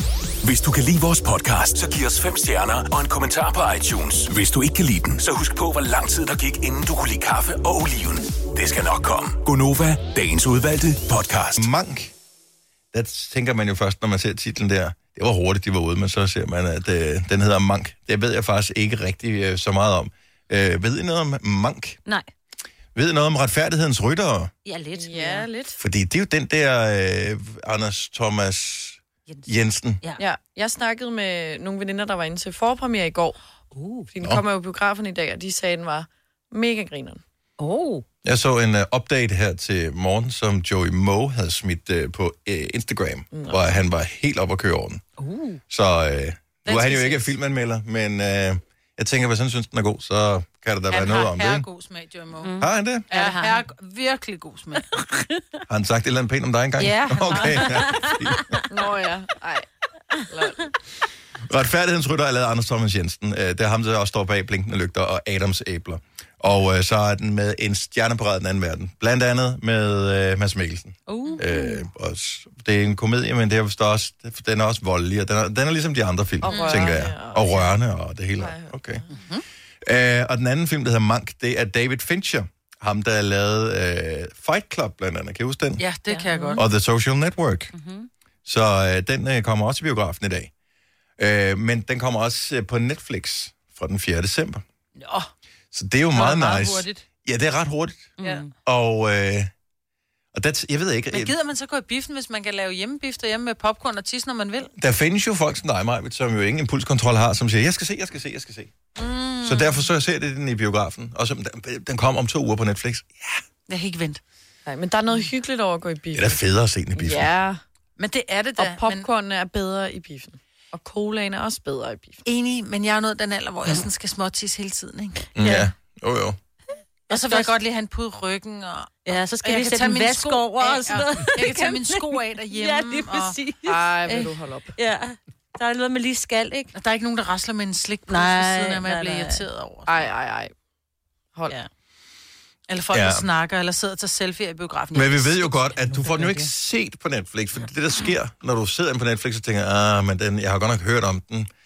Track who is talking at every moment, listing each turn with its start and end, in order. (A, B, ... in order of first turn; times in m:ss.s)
0:00.4-0:11.7 A
0:11.6-0:12.1 B
0:12.9-0:22.0 B
0:23.0-0:24.5 B
0:24.6-0:25.5 C
0:25.0-0:25.8 D
0:25.8-0:30.0 B
0:29.3-0:30.2 C
0:30.2-0:33.4 D
0:33.7-0:34.1 C
0:34.1-0:37.2 D
0:37.6-0:38.0 C
0:38.2-0:45.0 B
0:43.3-0:43.8 D
0:45.2-0:45.6 C
0:45.7-0:51.6 B
0:50.9-0:52.5 E
0:52.4-0:53.6 C
0:52.6-0:53.1 B
0:53.1-0:54.9 E
0:55.7-0:58.6 B
0:56.8-0:58.2 C
0:57.3-0:57.7 E
0:58.7-0:59.7 D
1:00.3-1:00.7 D
1:01.5-1:19.0 B
1:11.1-1:11.4 C
1:16.4-1:17.7 D
1:16.5-1:16.9 E
1:18.4-1:19.1 D
1:19.2-1:19.4 E
1:19.8-1:25.8 B
1:25.8-1:26.6 E
1:26.1-1:26.6 C
1:26.6-1:27.7 B
1:27.7-1:28.1 C
1:28.4-1:30.5 B
1:31.2-1:34.6 B
1:35.0-1:35.3 E
1:35.7-1:38.1 B
1:36.2-1:37.0 E
1:38.2-1:38.5 C
1:38.6-1:39.5 B
1:40.3-1:41.3 B
1:41.1-1:44.7 E
1:44.8-1:48.7 B
1:49.0-1:49.8 E
1:49.4-1:53.4 B
1:53.7-1:54.2 E
1:54.7-1:56.4 D
1:56.1-1:57.3 B
1:57.0-1:57.6 D
1:58.0-1:59.1 E
1:58.6-2:02.2 D
2:02.2-2:05.7 E
2:05.4-2:06.4 B
2:07.1-2:07.6 C
2:07.1-2:13.4 E
2:09.1-2:16.7 C
2:13.7-2:14.8 D
2:16.7-2:20.0 E
2:18.1-2:19.4 C
2:19.9-2:20.5 D
2:22.7-2:25.7 E
2:22.9-2:23.3 B
2:24.9-2:31.5 B
2:25.9-2:26.5 C